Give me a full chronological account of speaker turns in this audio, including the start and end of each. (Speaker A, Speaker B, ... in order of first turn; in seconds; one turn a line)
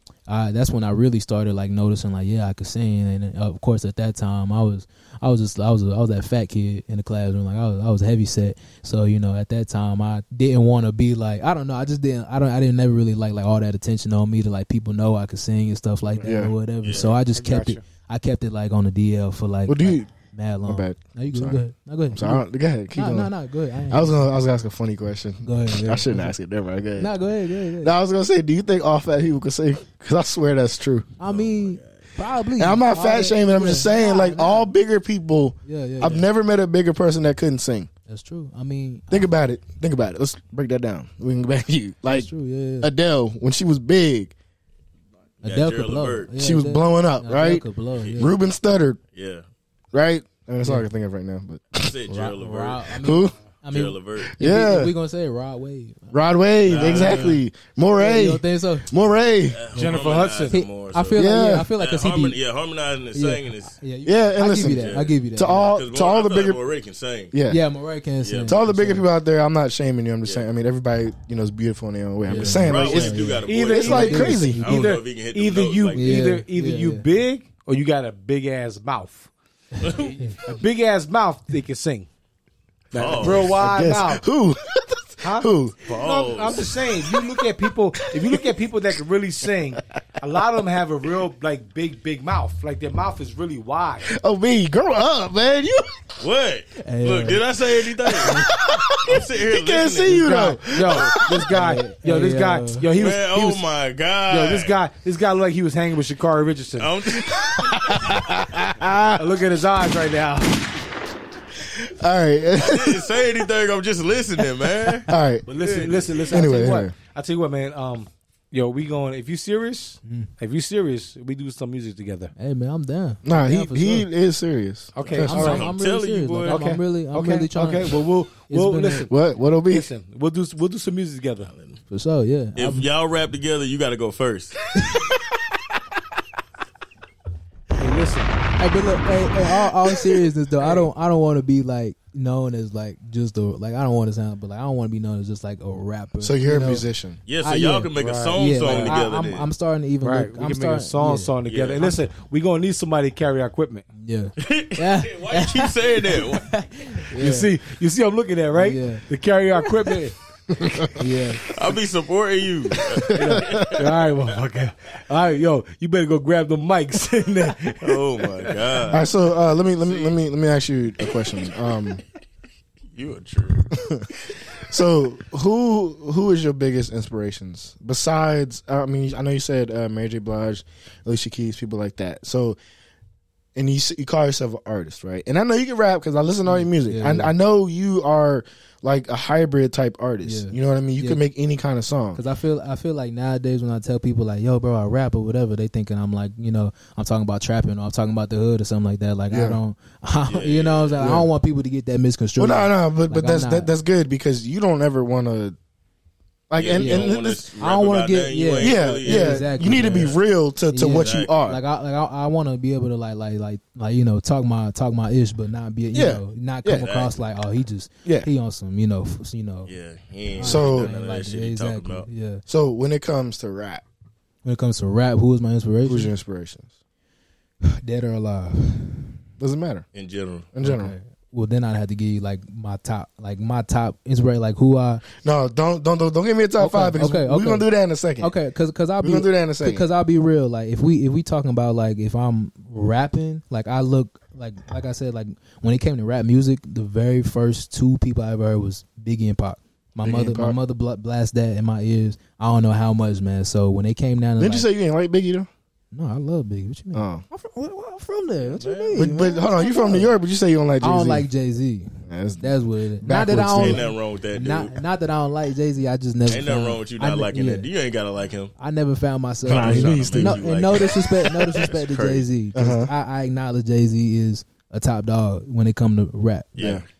Speaker A: 0.3-22.4
Speaker B: 16.2-16.6
Speaker C: 16.8-17.2
Speaker D: 17.3-17.8
Speaker B: 19.7-20.1
Speaker B: 20.6-23.3
Speaker A: 22.9-24.2
Speaker B: 23.9-27.1
Speaker A: 25.4-26.3
Speaker A: 27.0-27.9
Speaker B: 27.8-31.1
Speaker A: 31.2-34.7
Speaker C: 31.2-32.0
Speaker B: 32.6-37.9
Speaker A: 35.7-36.2
Speaker A: 38.1-39.3
Speaker B: 39.1-44.3
Speaker A: 42.1-42.9
Speaker C: 45.4-46.3
Speaker A: 45.4-48.3
Speaker B: 46.4-47.6
Speaker C: 48.0-48.3
Speaker B: 48.2-49.0
Speaker C: 49.1-49.4
Speaker B: 49.9-52.0
Speaker C: 51.8-52.9
Speaker A: 52.1-56.2
Speaker B: 53.0-53.4
Speaker C: 53.7-54.4
Speaker B: 54.2-54.9
Speaker B: 56.1-59.6
Speaker C: 56.7-57.4
Speaker A: 56.7-57.4
Speaker A: 58.0-58.9
Speaker C: 59.5-63.8
Speaker D: 59.7-60.6
Speaker A: 60.5-62.4
Speaker B: 61.1-61.7
Speaker A: 63.1-65.7
Speaker B: 64.0-66.6
Speaker C: 64.6-67.3
Speaker B: 67.3-67.6
Speaker A: 67.5-69.0
Speaker C: 68.2-68.6
Speaker B: 68.5-74.6
Speaker A: 72.3-74.6
Speaker C: 72.4-76.2
Speaker D: 73.5-79.3
Speaker A: 76.0-77.0
Speaker A: 79.8-80.3
Speaker C: 79.8-80.1
Speaker D: 79.8-82.1
Speaker D: 82.9-84.2
Speaker C: 82.9-83.6
Speaker B: 83.1-85.8
Speaker D: 85.2-94.1
Speaker C: 85.8-86.7
Speaker B: 87.1-87.4
Speaker B: 94.1-95.9
Speaker C: 96.2-98.5
Speaker A: 96.8-97.4
Speaker B: 98.2-101.5
Speaker A: 98.2-98.5
Speaker C: 99.0-101.2
Speaker D: 100.2-103.6
Speaker A: 101.5-102.9
Speaker C: 102.9-104.8
Speaker D: 104.3-106.9
Speaker C: 106.8-108.3
Speaker B: 107.2-109.4
Speaker D: 109.2-110.7
Speaker B: 111.6-113.1
Speaker C: 112.6-116.3
Speaker B: 115.1-115.5
Speaker D: 115.5-122.3
Speaker B: 116.3-116.9
Speaker A: 122.4-124.1
Speaker B: 123.2-125.7
Speaker D: 124.9-125.7
Speaker C: 125.0-126.6
Speaker A: 125.3-129.1
Speaker D: 126.5-129.1
Speaker B: 129.1-129.9
Speaker D: 129.7-131.5
Speaker C: 131.5-131.8
Speaker A: 131.9-132.9
Speaker C: 132.6-134.6
Speaker A: 134.7-135.1
Speaker D: 137.8-138.4
Speaker A: 138.6-146.8
Speaker D: 140.6-140.9
Speaker B: 146.2-147.2
Speaker C: 147.3-149.5
Speaker A: 147.4-151.3
Speaker D: 148.0-149.0
Speaker D: 150.0-153.9
Speaker C: 151.5-152.0
Speaker A: 154.0-157.5
Speaker C: 154.4-156.5
Speaker D: 157.2-160.2
Speaker A: 158.5-159.1
Speaker B: 160.6-160.9
Speaker A: 161.0-161.4
Speaker C: 161.5-164.2
Speaker B: 163.0-163.7
Speaker D: 163.2-168.5
Speaker C: 167.8-169.1
Speaker B: 168.9-172.0
Speaker C: 169.8-170.2
Speaker C: 172.9-173.7
Speaker B: 174.7-182.6
Speaker B: 183.6-192.2
Speaker A: 186.5-187.3
Speaker A: 190.2-191.2
Speaker A: 192.2-203.7
Speaker B: 199.3-199.6
Speaker C: 200.3-201.1
Speaker B: 201.0-201.3
Speaker B: 202.4-205.6
Speaker B: 206.5-207.5
Speaker C: 206.6-210.2
Speaker A: 206.7-210.2
Speaker B: 208.6-211.6
Speaker A: 210.7-219.7
Speaker C: 210.9-211.5
Speaker B: 215.9-216.9
Speaker C: 216.7-217.1
Speaker B: 218.1-218.3
Speaker C: 219.7-222.1
Speaker A: 220.4-222.4
Speaker B: 220.4-220.9
Speaker B: 222.5-223.8
Speaker A: 224.4-226.1
Speaker B: 225.8-226.7
Speaker A: 227.6-229.2
Speaker B: 229.4-229.9
Speaker C: 229.9-230.5
Speaker B: 230.5-230.9
Speaker A: 230.6-235.0
Speaker B: 235.2-238.3
Speaker A: 236.6-237.7
Speaker A: 238.2-254.7
Speaker B: 239.0-239.9
Speaker B: 250.0-250.6
Speaker B: 254.4-255.5
Speaker A: 255.9-260.1
Speaker B: 256.9-257.2
Speaker C: 258.4-259.1
Speaker B: 258.9-261.3
Speaker A: 260.8-267.7
Speaker B: 262.1-263.8
Speaker C: 263.5-264.8
Speaker C: 266.3-268.5
Speaker A: 268.6-276.5
Speaker C: 269.4-272.3
Speaker B: 269.4-270.5
Speaker B: 272.6-272.9
Speaker C: 276.6-276.8
Speaker B: 276.6-276.8